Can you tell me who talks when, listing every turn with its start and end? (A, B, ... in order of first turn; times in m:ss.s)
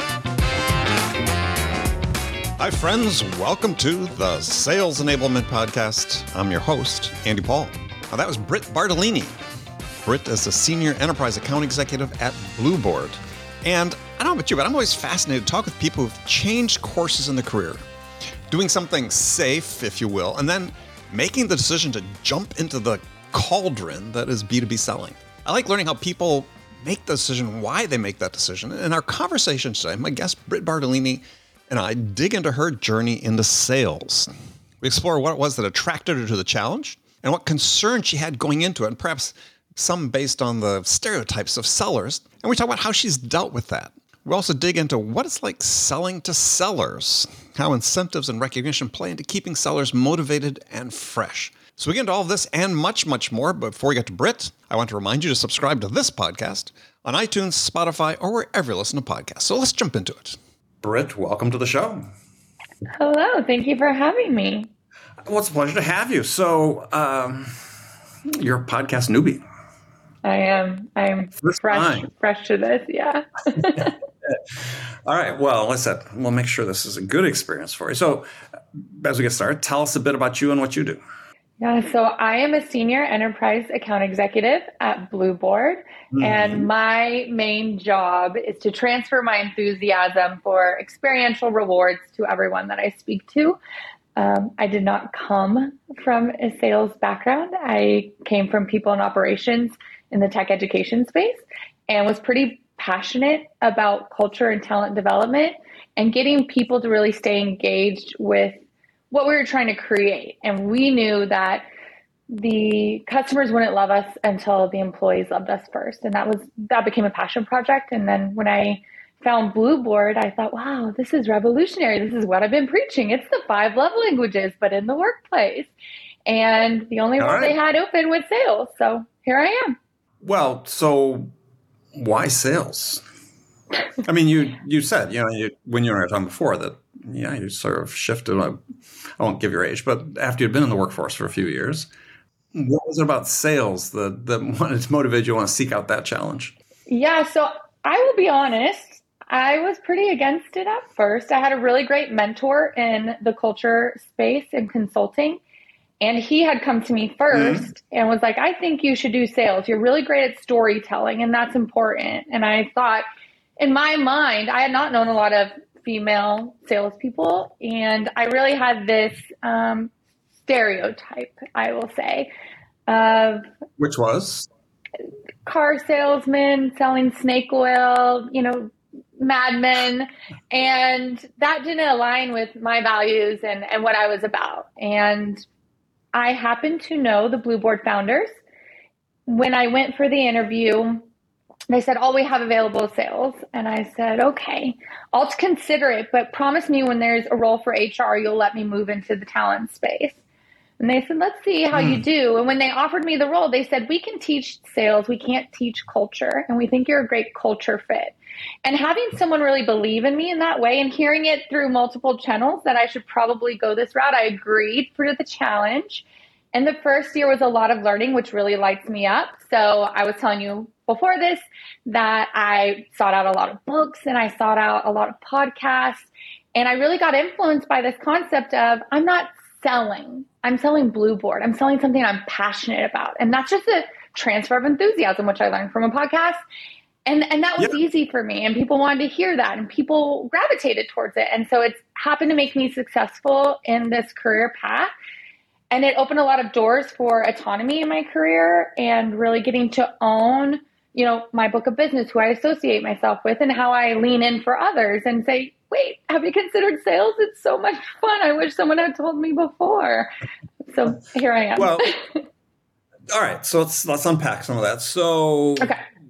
0:02.6-0:09.4 A
0:10.0-0:17.8 A
0:18.5-0:34.3 A
0:34.8-1:02.0 A
1:03.0-1:04.7 B
1:05.2-1:07.6 A
1:08.3-1:09.4 A
1:10.2-1:14.0 B
1:11.4-1:12.1 A
1:13.8-1:21.0 A
1:21.6-1:33.6 B
1:26.1-1:26.7 A
1:34.2-1:48.6 B
1:49.1-1:51.7 B
1:52.3-2:05.7 B
2:06.3-2:09.7 B
2:07.2-2:07.6 A
2:10.2-2:11.3 A
2:11.9-2:13.0 A
2:14.0-2:18.6 A
2:19.2-2:21.9 A
2:22.5-2:26.5 A
2:26.9-2:35.4 B
2:36.0-2:43.0 B
2:37.3-2:37.7 A
2:43.6-2:49.9 B
2:50.4-2:52.3 B
2:52.9-2:53.4 B
2:53.8-2:54.5 A
2:55.5-3:05.4 B
3:06.1-3:08.3 B
3:09.2-3:11.1 B
3:11.7-3:20.2 B
3:20.8-3:56.4 B
3:21.7-3:22.0 A
3:57.0-4:04.9 B
4:05.7-4:20.1 B
4:20.7-4:22.2 B
4:21.6-4:21.9 A
4:23.1-4:25.7 A